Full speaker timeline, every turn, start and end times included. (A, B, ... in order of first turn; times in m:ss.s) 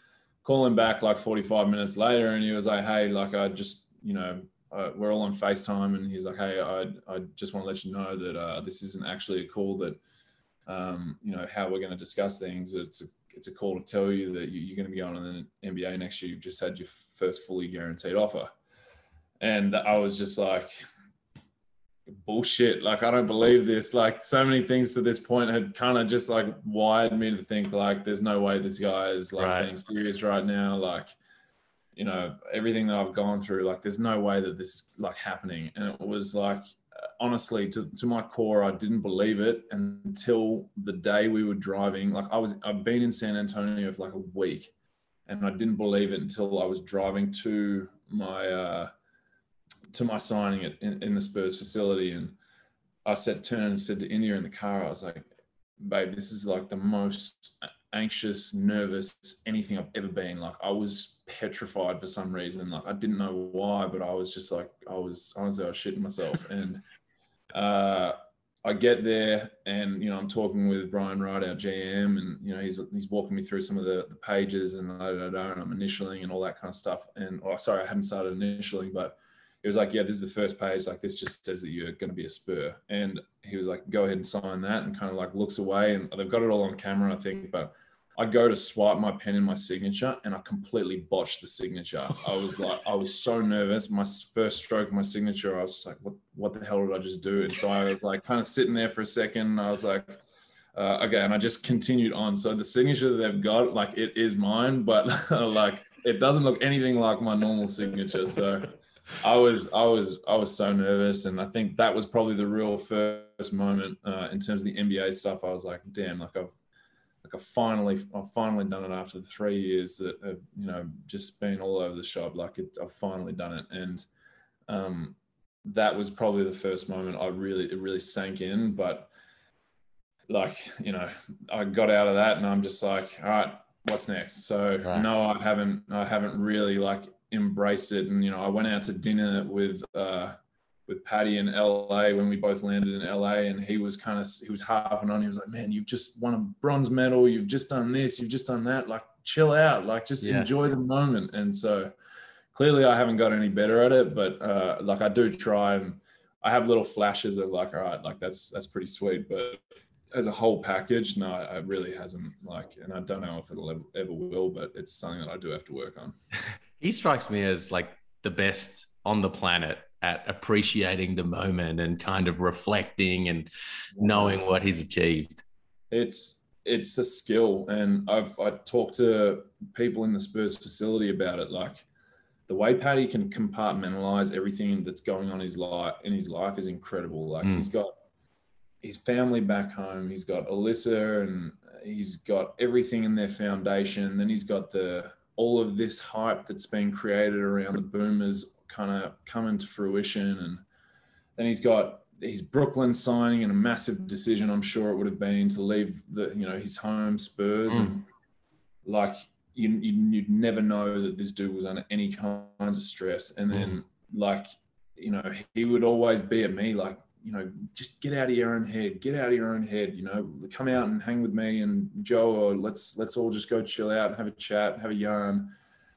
0:00.4-0:10.0 A
0:10.7-0:18.5 A
0:19.4-0:20.8 A
0:22.1-0:31.1 A
0:29.4-0:29.7 B
0:32.0-0:36.6 A
0:37.2-0:44.7 A
0:45.3-0:48.9 A
0:49.9-0:52.4 A
0:53.0-0:55.2 A
0:55.8-1:06.8 A
1:07.5-1:40.2 A
1:40.8-1:56.5 A
1:57.2-2:04.0 A
2:04.7-2:09.1 A
2:10.3-2:20.4 A
2:20.9-2:31.9 A
2:30.2-2:30.5 B
2:32.5-2:39.6 A
2:40.1-2:46.2 A
2:46.8-2:55.4 B
2:54.0-2:54.4 A
2:55.9-3:01.9 A
3:02.5-3:07.9 A
3:07.4-3:07.7 B
3:08.8-3:20.6 A
3:21.4-3:28.0 A
3:28.8-3:45.5 A
3:33.5-3:33.8 B